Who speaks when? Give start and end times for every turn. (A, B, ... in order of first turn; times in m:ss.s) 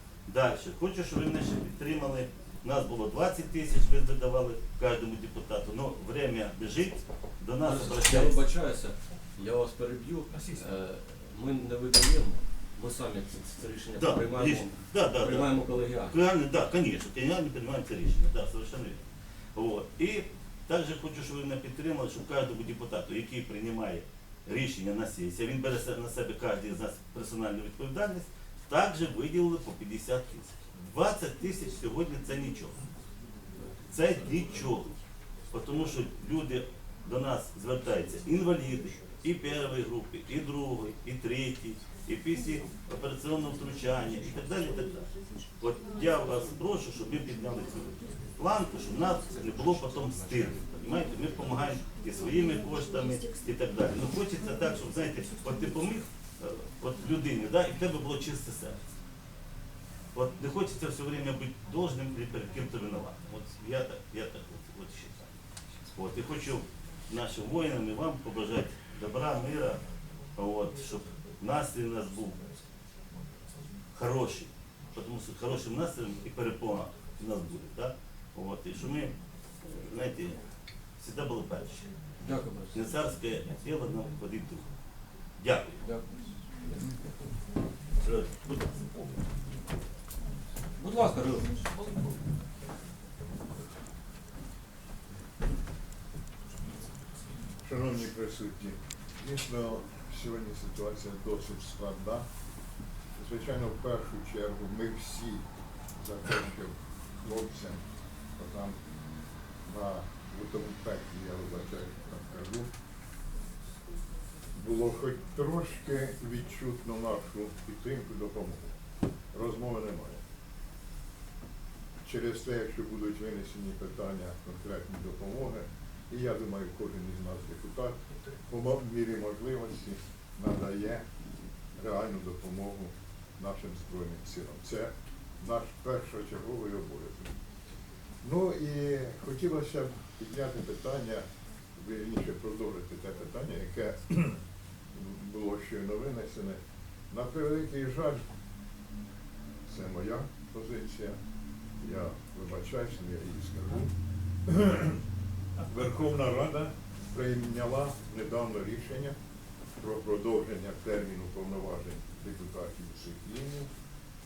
0:00.3-0:08.4 A
0:07.6-0:16.2 B
0:14.0-0:15.5 A
0:16.1-0:32.8 A
0:33.9-0:34.9 A
0:35.5-0:58.8 A
1:00.1-1:05.3 A
1:05.9-1:09.8 A
1:10.4-1:12.4 A
1:13.9-1:20.4 A
1:21.0-1:21.9 A
1:22.2-1:22.8 B
1:22.7-1:24.7 A
1:25.4-1:25.8 A
1:25.8-1:26.3 B
1:28.0-1:28.9 A
1:30.8-1:31.6 B
1:37.6-1:42.2 C
1:43.2-1:45.4 C
1:46.0-1:47.8 C
1:48.4-1:48.8 C
1:49.6-1:52.7 C
1:54.5-1:58.7 C
1:59.3-2:00.2 C
2:02.0-2:11.0 C
2:11.8-2:17.4 C
2:18.2-2:21.2 C
2:21.8-2:24.4 C
2:24.9-2:26.6 C
2:27.1-2:28.2 C
2:29.6-2:31.2 C
2:31.8-2:33.9 C
2:34.4-2:35.0 C
2:35.7-2:39.1 C
2:39.8-2:43.7 C